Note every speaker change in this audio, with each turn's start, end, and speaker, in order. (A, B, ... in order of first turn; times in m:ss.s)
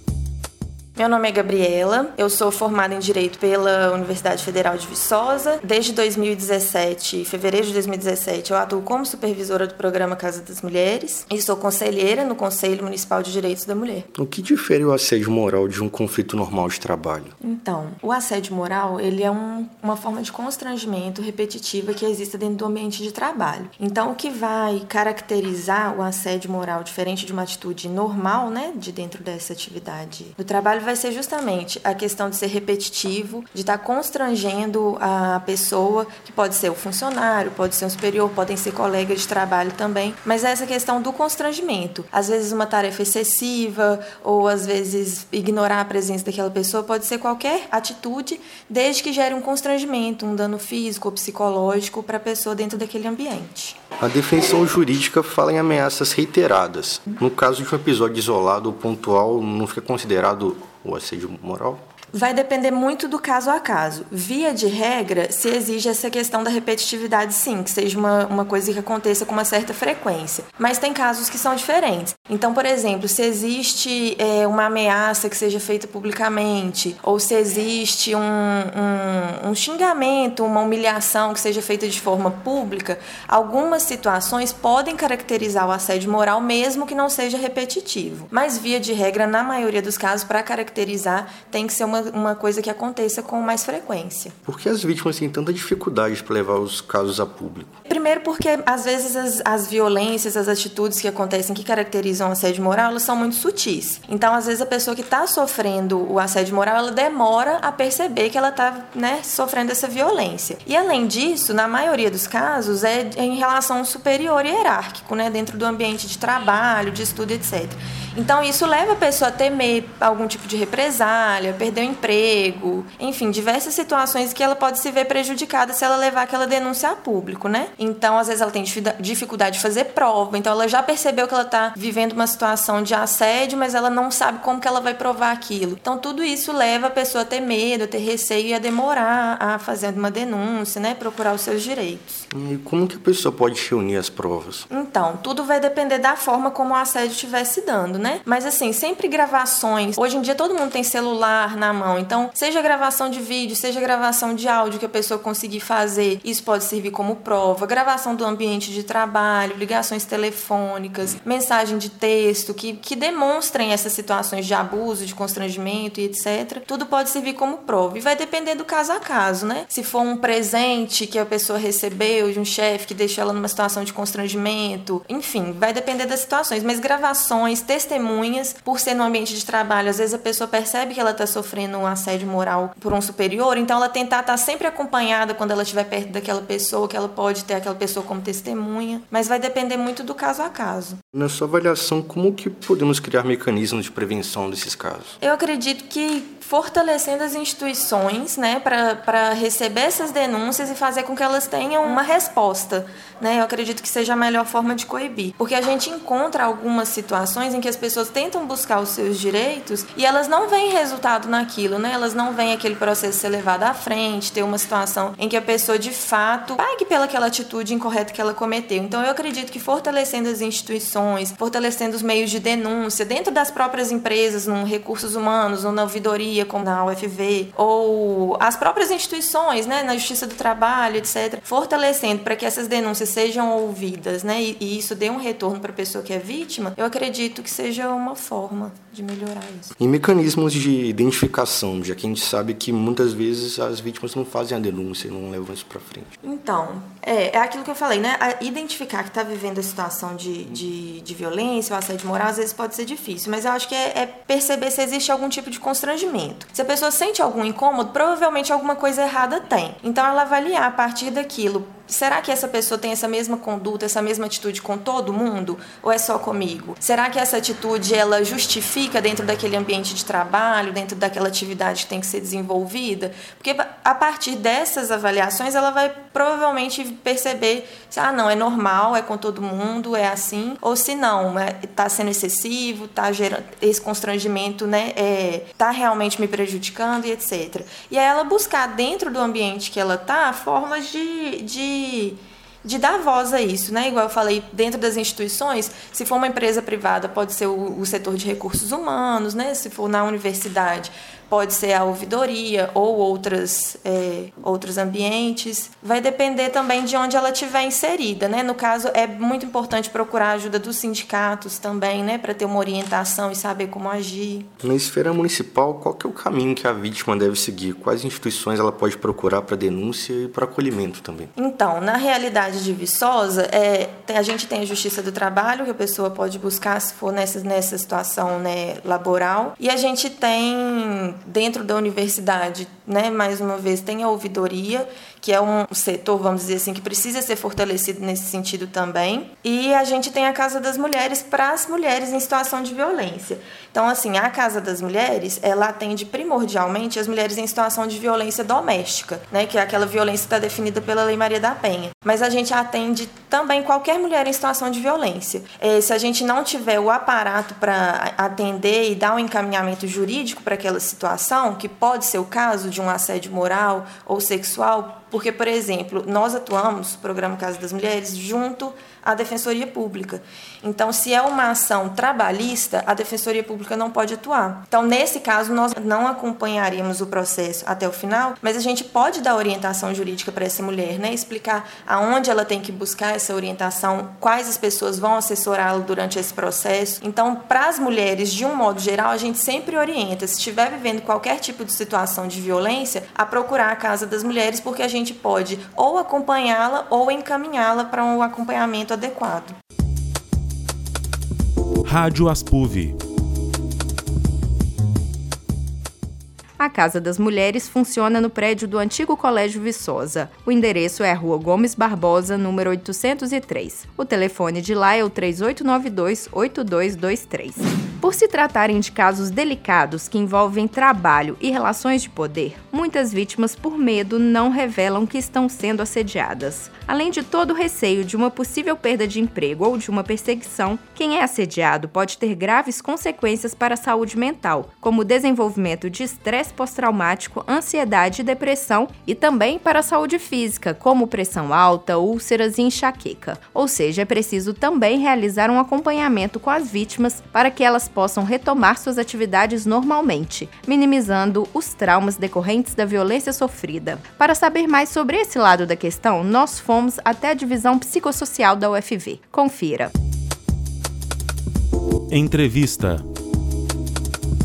0:01.0-0:14.1 A
0:14.1-0:17.3 B
0:17.4-0:53.8 A
0:54.0-1:01.8 B
1:02.1-1:34.4 A
1:34.4-1:37.7 B
1:37.9-2:22.3 A
2:22.3-2:24.7 B
2:24.7-3:11.0 A
3:11.1-3:15.2 B
3:15.2-3:59.7 A
3:59.8-4:06.1 B
4:06.2-5:14.5 A
5:14.6-5:21.3 B
5:21.4-6:39.6 A
6:41.8-6:43.0 C
6:46.6-7:39.9 D
7:42.1-7:43.0 C